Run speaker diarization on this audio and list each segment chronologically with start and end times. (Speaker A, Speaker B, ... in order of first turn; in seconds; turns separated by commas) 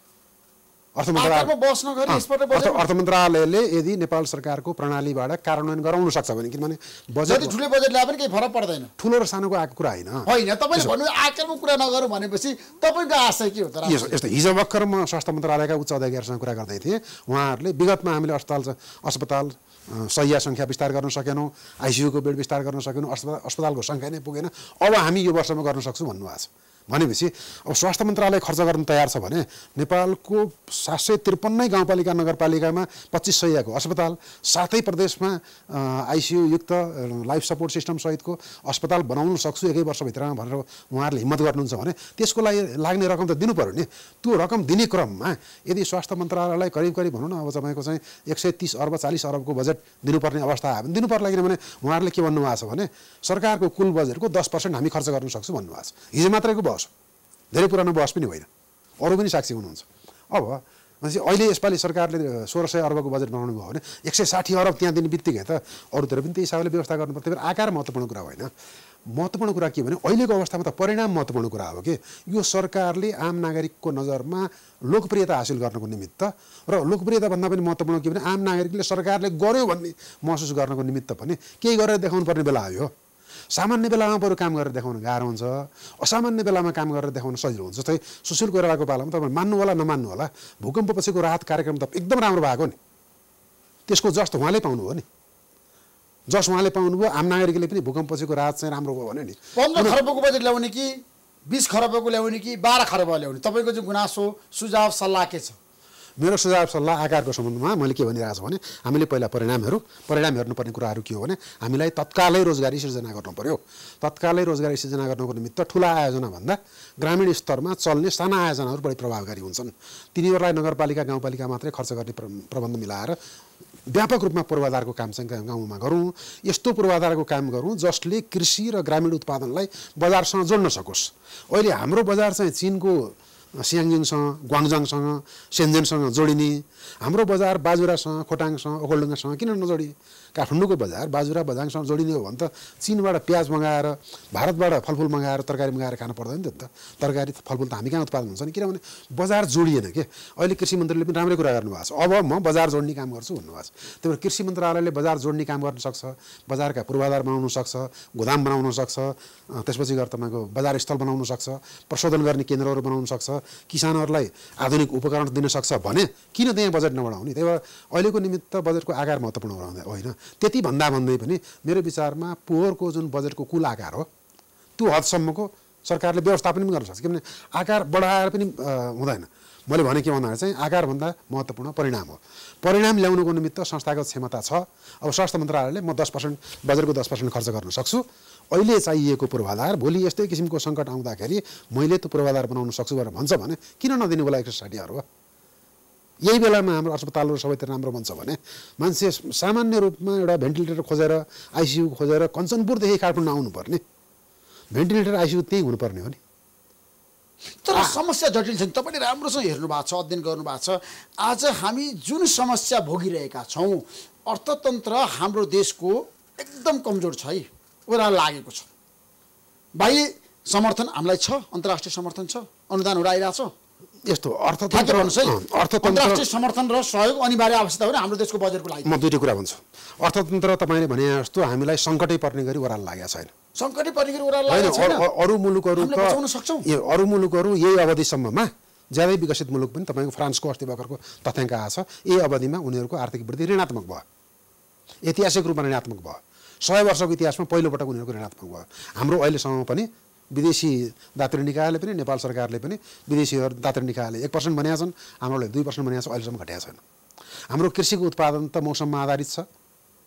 Speaker A: 0.9-1.5, Speaker B: 1.1-2.8, Speaker A: 2.1-7.5, Speaker B: 7.2-8.9, Speaker A: 9.0-10.9, Speaker B: 10.2-14.1, Speaker A: 13.8-56.9, Speaker A: 57.5-58.5, Speaker A: 59.0-68.5, Speaker A: 69.1-82.9, Speaker A: 83.5-92.8, Speaker A: 93.9-95.0, Speaker A: 96.3-100.0, Speaker B: 99.5-105.5, Speaker A: 106.2-123.2, Speaker A: 123.9-174.1, Speaker A: 174.8-195.0, Speaker A: 196.2-203.8, Speaker A: 204.7-206.2, Speaker B: 207.6-218.7, Speaker B: 219.8-223.5, Speaker A: 224.1-226.2, Speaker B: 224.7-228.9, Speaker A: 228.8-233.3, Speaker B: 233.5-235.0, Speaker A: 234.5-244.0, Speaker B: 235.8-236.7, Speaker A: 245.1-256.8, Speaker A: 257.5-259.5